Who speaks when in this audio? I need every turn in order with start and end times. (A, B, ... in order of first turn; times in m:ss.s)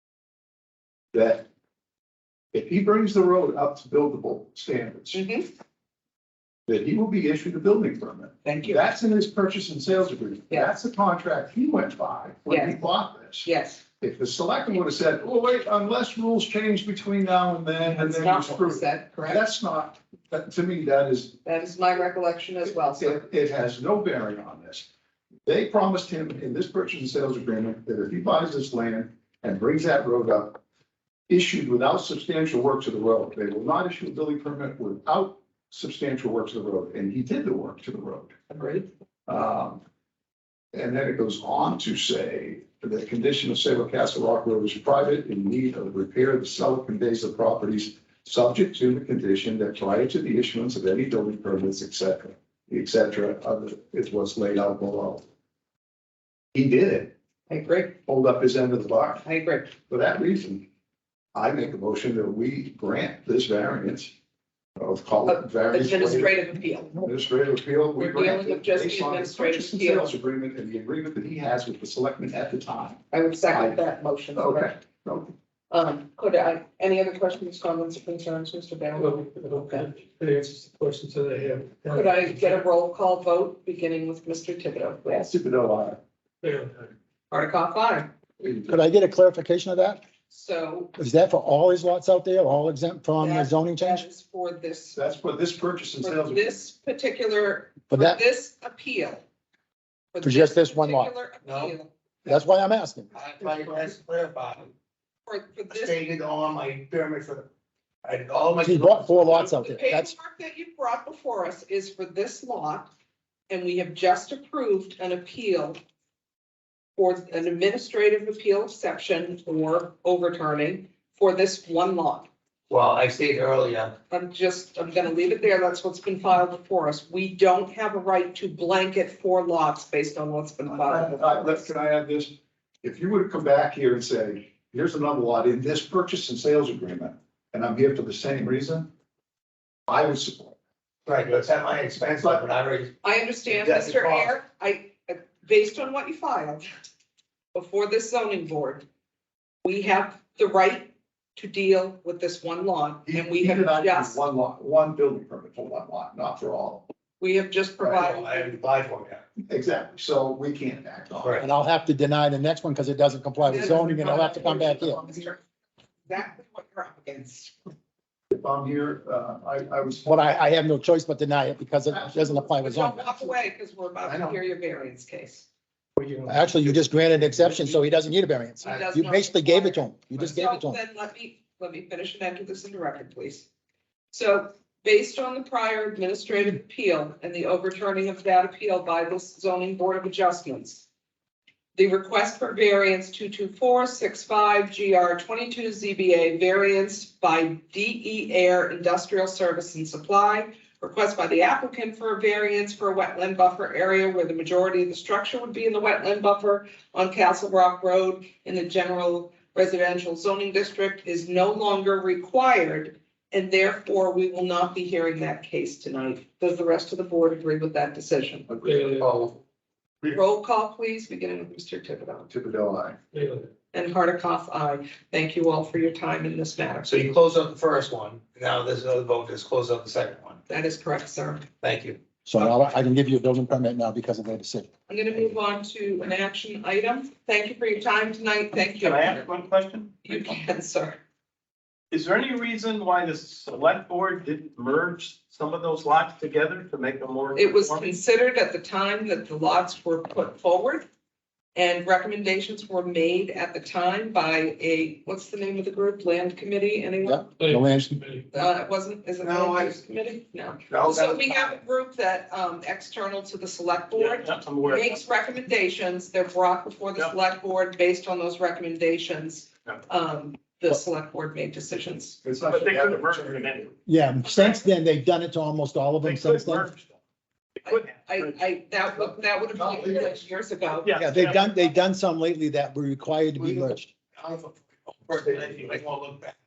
0:01.1-0:01.4 A
0:02.5-0:05.2 A
0:05.1-0:05.5 B
0:06.7-0:13.5 A
0:08.4-0:08.9 B
0:12.5-0:12.8 B
0:13.4-0:13.8 B
0:14.0-0:21.4 A
0:17.8-0:19.4 B
0:21.4-0:23.2 B
0:22.7-0:24.9 A
0:25.4-0:30.6 A
0:31.3-0:38.3 A
0:38.5-0:38.9 B
0:39.3-0:39.8 A
0:40.7-0:55.2 A
0:56.5-0:57.1 A
0:57.5-0:57.9 B
0:58.0-0:59.2 A
0:59.2-0:59.7 B
0:59.8-1:00.7 A
1:01.3-1:04.1 A
1:04.8-1:06.4 A
1:05.2-1:07.0 B
1:07.0-1:13.8 A
1:08.0-1:10.1 B
1:13.1-1:14.7 B
1:14.3-1:15.3 A
1:15.7-1:19.9 B
1:19.0-1:22.2 C
1:21.9-1:25.3 B
1:25.1-1:26.0 A
1:26.4-1:26.7 C
1:27.3-1:28.1 B
1:28.4-1:28.7 A
1:28.7-1:30.0 D
1:30.3-1:30.9 B
1:31.0-1:34.0 D
1:33.2-1:35.0 B
1:35.0-1:36.6 A
1:36.0-1:39.2 B
1:37.9-1:38.2 D
1:40.1-1:41.9 B
1:40.2-1:41.1 D
1:41.4-1:41.7 E
1:42.2-1:43.1 D
1:43.1-1:44.7 E
1:45.2-1:46.0 B
1:45.7-1:47.5 E
1:48.0-1:49.5 E
1:48.6-1:50.1 D
1:49.5-1:52.9 B
1:53.5-1:55.8 B
1:57.0-2:02.3 B
2:02.7-2:04.0 E
2:04.1-2:11.7 B
2:10.7-2:18.9 A
2:19.9-2:20.6 A
2:21.1-2:22.9 E
2:23.0-2:26.7 B
2:23.5-2:24.3 E
2:27.5-2:28.9 B
2:29.6-2:34.2 B
2:33.1-2:36.9 A
2:37.2-2:38.5 B
2:37.8-2:39.2 E
2:39.5-2:41.4 A
2:41.4-2:45.1 D
2:43.4-2:45.4 B
2:46.1-2:47.6 B
2:48.3-2:50.1 A
2:50.0-2:53.1 D
2:51.9-2:52.6 A
2:52.6-2:55.5 B
2:54.1-2:54.3 E
2:56.0-2:56.2 E
2:56.3-3:00.8 D
2:58.6-3:03.5 B
3:04.1-3:10.9 B
3:11.8-3:38.5 B
3:38.5-3:39.0 A
3:38.6-3:39.1 C
3:39.0-3:39.4 E
3:40.0-3:42.3 B
3:42.3-3:43.0 A
3:43.1-3:43.5 C
3:43.7-3:47.1 B
3:46.9-3:50.4 E
3:50.5-3:51.5 B
3:51.6-3:52.0 E
3:52.2-3:54.7 D
3:54.9-3:59.3 B
3:58.8-4:00.2 F
4:00.0-4:01.0 B
4:01.9-4:08.0 F
4:07.4-4:10.9 B
4:11.5-4:17.3 B
4:17.0-4:18.0 D
4:17.4-4:18.3 C
4:18.3-4:32.2 B
4:19.2-4:19.8 E
4:20.7-4:21.1 F
4:23.9-4:25.0 F
4:32.2-4:33.7 A
4:32.4-4:33.7 F
4:33.9-4:36.7 D
4:36.0-4:36.8 F
4:37.6-4:38.3 F
4:37.6-4:41.0 B
4:39.6-4:40.1 A
4:40.8-4:41.6 F
4:40.9-4:43.9 D
4:44.2-4:44.5 E
4:45.0-4:46.4 E